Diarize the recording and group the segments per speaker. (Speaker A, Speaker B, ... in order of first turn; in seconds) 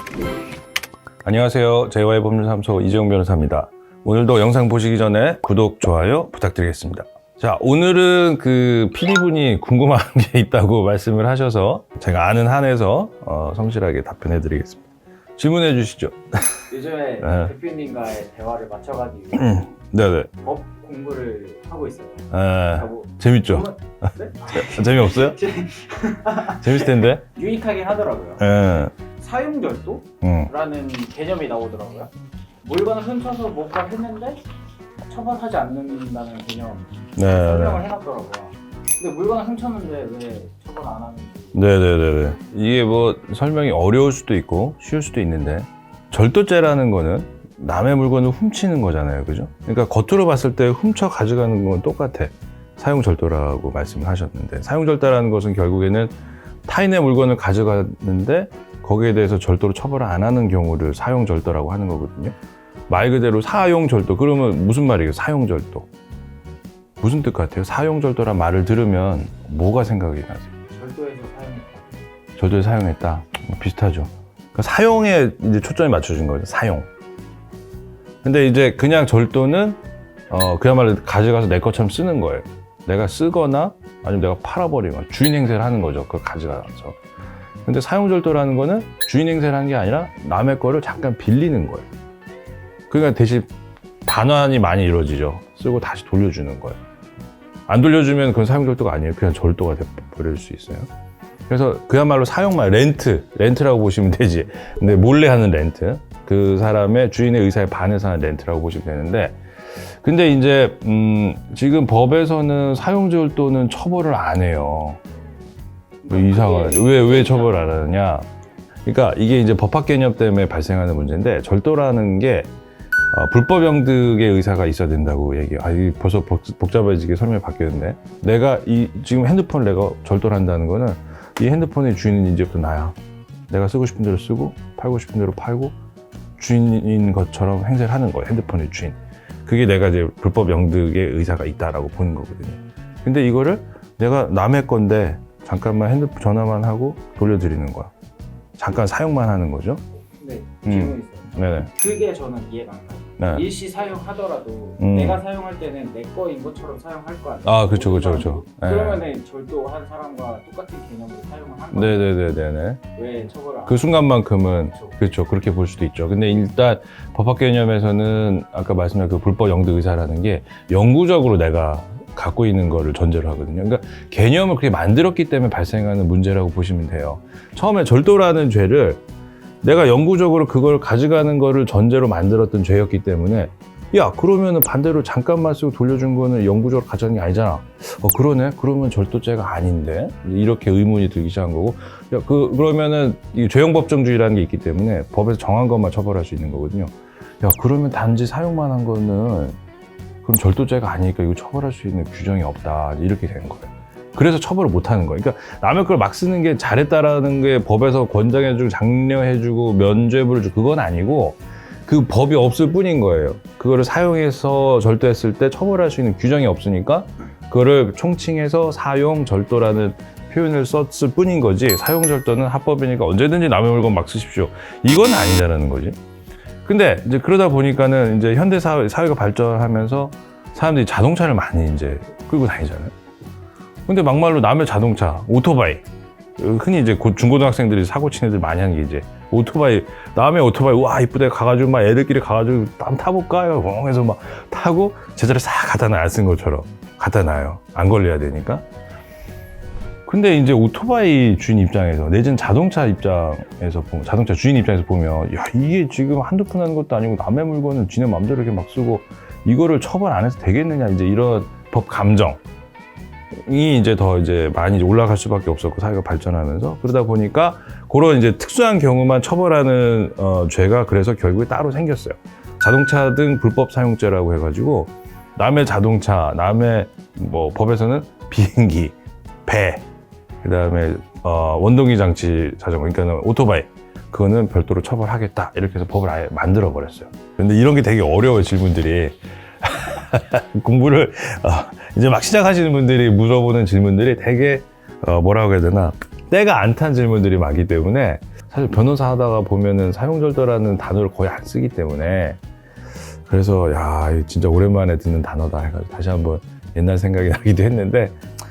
Speaker A: 1.2-16.6, 17.2-17.5, 19.4-20.3, 22.3-25.4, 26.4-27.2, 28.4-29.0, 30.2-30.5, 37.2-37.8, 41.5-56.1, 56.7-62.4, 62.9-65.9, 67.0-70.5, 72.4-76.9, 78.2-87.0, 87.7-91.9, 92.9-93.5, 94.0-96.8, 97.7-100.9, 101.5-115.0, 116.1-118.3, 118.9-122.5, 123.1-133.0, 133.5-135.8, 136.4-147.9, 148.6-149.8, 150.7-151.7, 153.2-153.4, 154.8-155.2, 157.4-159.0, 161.7-162.8, 163.7-179.0, 179.6-199.6, 200.2-225.9, 226.7-232.9, 233.9-235.8, 236.4-248.7, 250.1-262.4, 263.4-279.9, 280.4-302.4, 303.2-308.2
Speaker B: 16.7-19.5, 20.4-28.5, 29.0-34.4, 35.0-41.6, 70.7-71.9, 116.0-117.8, 150.2-162.2, 163.0-164.1